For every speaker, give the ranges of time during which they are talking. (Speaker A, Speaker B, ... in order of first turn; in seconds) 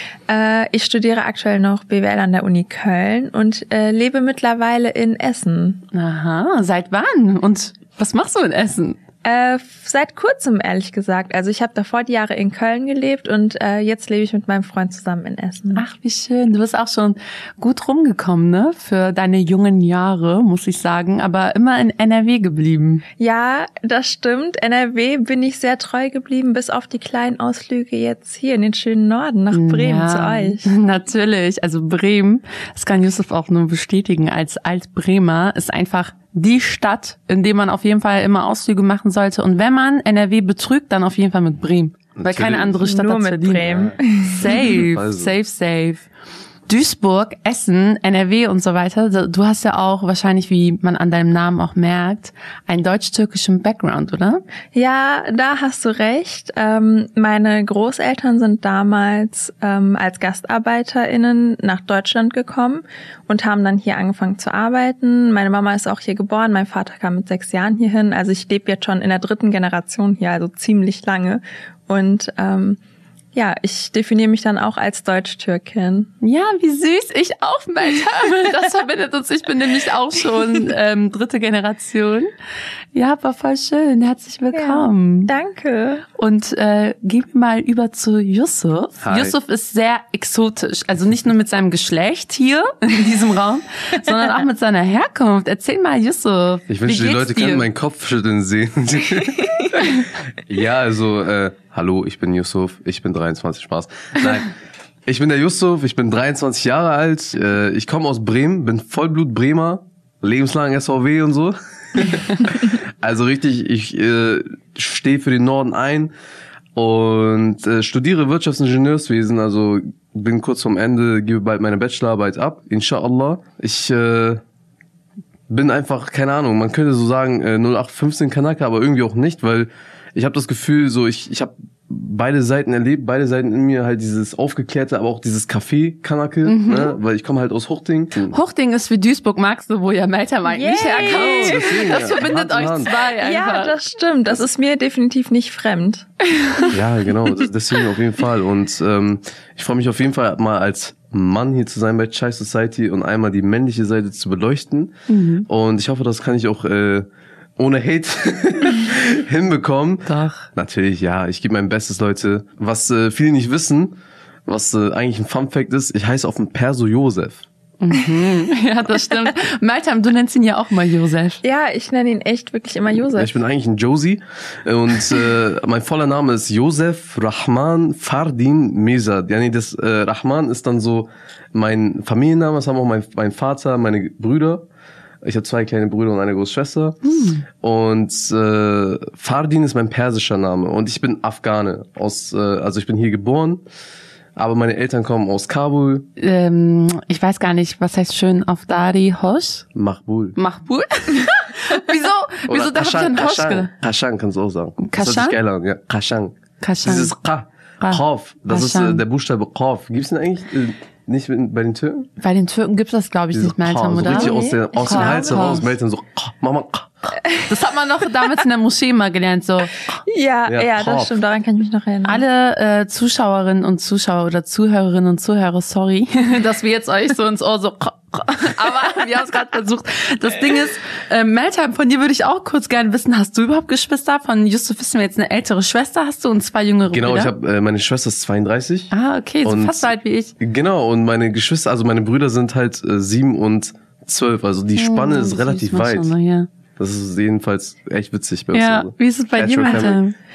Speaker A: 0.3-5.8, 9.2-15.8, 23.2-30.7, 42.8-44.8, 54.7-72.8, 73.3-76.1, 84.5-86.0, 140.5-142.1, 143.2-146.1, 171.4-173.4, 214.1-215.7, 220.1-222.2, 249.7-250.0
Speaker B: 5.9-9.0, 15.8-23.0, 29.5-43.7, 44.2-46.1, 46.7-54.4, 76.2-82.3, 82.9-85.3, 86.2-97.7, 136.4-137.0, 138.3-143.8, 146.4-146.7, 155.1-155.5, 160.1-160.5, 167.8-171.4, 187.0-187.4, 196.2-199.7, 200.4-203.7, 204.8-205.4, 206.6-207.1, 207.8-209.0, 212.2-215.7, 217.5-219.7, 222.1-237.3, 238.9-240.3, 244.8-246.5, 248.5-250.2
Speaker C: 42.2-42.8, 43.6-45.3, 89.0-89.3, 96.7-104.5, 105.1-116.1, 116.8-124.4, 125.5-138.4, 141.0-142.9, 146.7-154.9, 155.5-164.0, 164.5-167.4, 173.2-184.7, 185.2-187.0, 187.6-193.6, 194.4-196.1, 199.7-200.4, 202.5-212.1, 213.3-217.1, 220.5-221.1, 236.9-238.9, 239.4-239.9, 240.4-246.1, 246.8-250.0